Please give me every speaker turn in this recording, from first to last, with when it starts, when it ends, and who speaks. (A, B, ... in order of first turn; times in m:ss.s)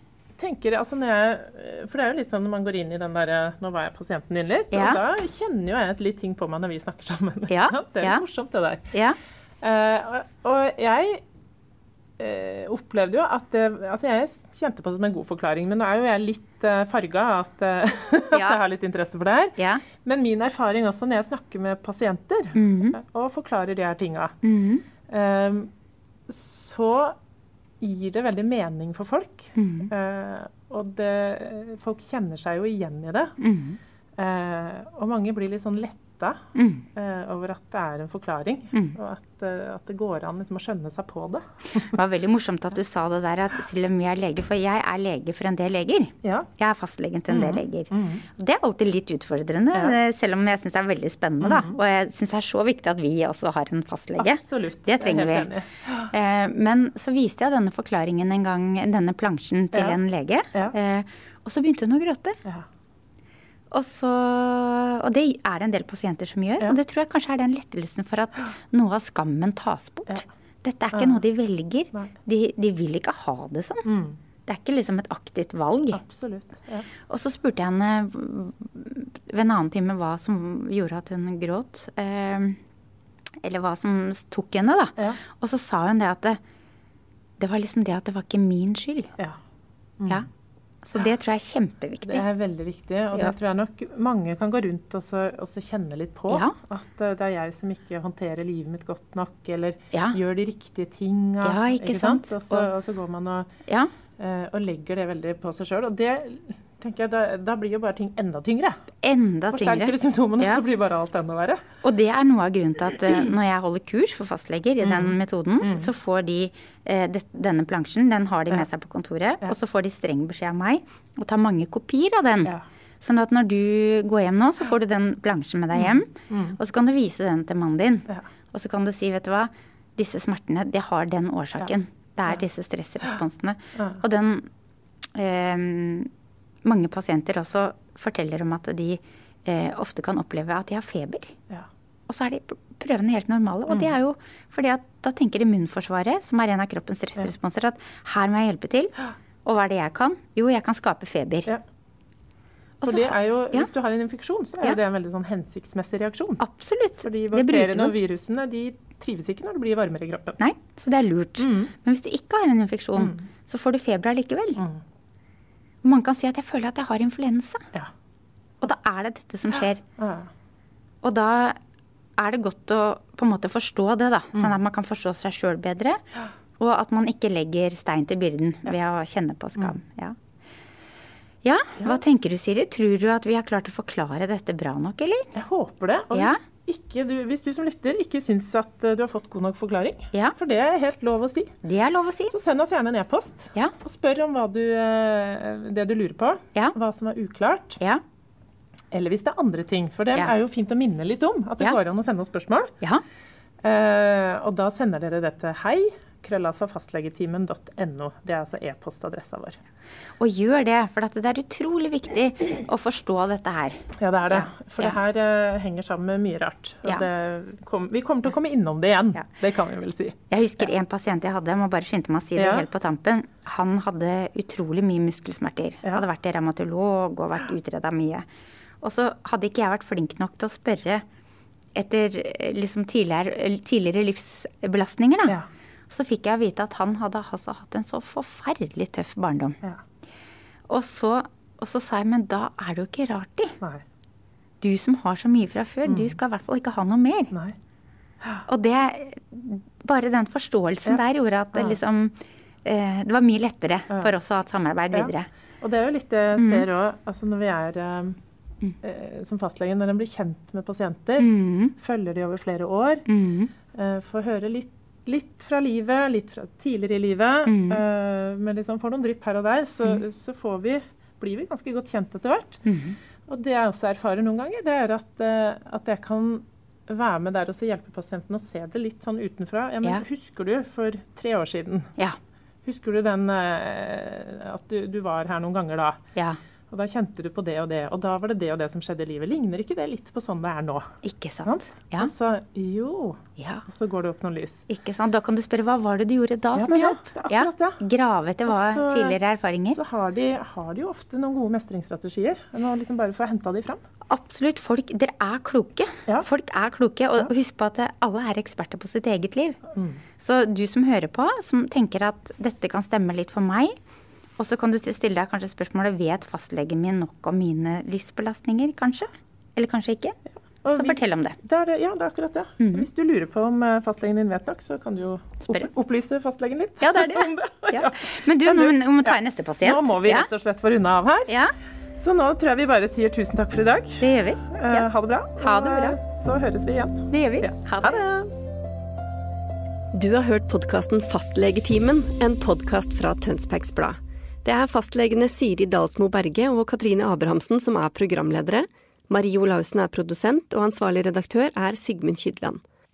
0:00.4-0:08.9 A
0:04.7-0:05.0 B
0:07.5-0:08.2 B
0:08.9-0:09.2 B
0:09.6-0:11.2 A
0:12.2-0:24.4 A
0:18.3-0:18.6 B
0:19.6-0:19.8 B
0:22.6-0:23.0 B
0:24.4-0:24.8 B
0:25.1-0:25.7 A
0:26.3-0:27.2 A
0:27.8-0:33.4 A
0:29.6-0:29.9 B
0:33.4-0:33.8 B
0:34.2-0:36.4 A
0:36.6-0:36.8 B
0:37.0-0:41.9 A
0:41.8-0:55.5 B
0:46.2-0:46.5 A
0:47.3-0:48.3 A
0:51.4-0:51.8 A
0:54.2-0:56.1 A
0:56.1-1:02.4 B
0:59.7-1:00.0 A
1:03.7-1:13.9 B
1:10.9-1:11.2 A
1:13.9-1:14.2 A
1:14.5-1:16.0 B
1:15.9-1:16.9 A
1:17.1-1:22.6 B
1:23.4-1:26.4 B
1:27.4-1:29.1 B
1:30.8-1:32.3 B
1:32.1-1:43.5 A
1:36.3-1:36.6 B
1:39.9-1:40.2 B
1:41.4-1:42.7 B
1:44.2-1:48.8 A
1:49.0-1:50.6 B
1:49.5-1:51.6 A
1:51.8-2:14.5 B
1:54.8-1:55.9 A
2:05.8-2:06.6 A
2:15.2-2:16.1 B
2:16.6-2:21.4 B
2:22.1-2:31.5 B
2:23.7-2:23.9 A
2:32.8-2:33.7 B
2:32.8-2:36.4 A
2:36.4-2:38.0 B
2:37.0-2:40.4 A
2:40.4-2:44.6 B
2:41.4-2:41.7 A
2:43.0-2:43.2 A
2:45.8-2:47.6 B
2:48.6-2:49.8 B
2:50.0-2:50.3 A
2:51.0-2:51.6 B
2:52.2-2:56.0 B
2:56.6-3:00.2 B
3:01.4-3:05.3 B
3:05.4-3:11.5 A
3:06.1-3:06.4 B
3:11.6-3:12.3 B
3:12.3-3:17.8 A
3:18.9-3:22.7 A
3:23.6-3:29.6 A
3:30.2-3:35.0 B
3:34.0-3:40.2 A
3:40.3-3:48.2 B
3:42.4-3:42.7 A
3:48.8-3:51.0 B
3:51.8-3:55.4 B
3:55.9-3:59.6 B
4:00.7-4:03.6 B
4:04.6-4:07.3 B
4:05.9-4:06.1 A
4:08.5-4:15.3 B
4:14.9-4:18.2 A
4:16.4-4:16.7 B
4:18.8-4:23.1 A
4:21.2-4:21.8 B
4:23.1-4:23.5 B
4:23.7-4:32.6 A
4:27.5-4:27.8 B
4:32.6-4:33.0 B
4:33.3-4:41.9 A
4:42.6-4:46.0 A
4:46.7-4:50.9 A
4:51.0-4:52.1 B
4:51.5-4:54.6 A
4:53.4-4:53.6 B
4:54.7-4:59.8 B
4:56.6-4:57.8 A
4:58.5-4:59.2 A
4:59.7-5:03.8 A
5:04.1-5:09.6 B
5:09.8-5:10.0 A
5:10.2-5:13.7 B
5:14.4-5:20.2 B
5:20.6-5:31.3 A
5:20.7-5:21.4 B
5:22.6-5:22.9 B
5:26.8-5:30.3 B
5:31.3-5:31.5 B
5:31.9-5:38.3 A
5:34.0-5:34.9 B
5:35.4-5:36.0 B
5:37.1-5:38.0 B
5:40.0-5:52.6 C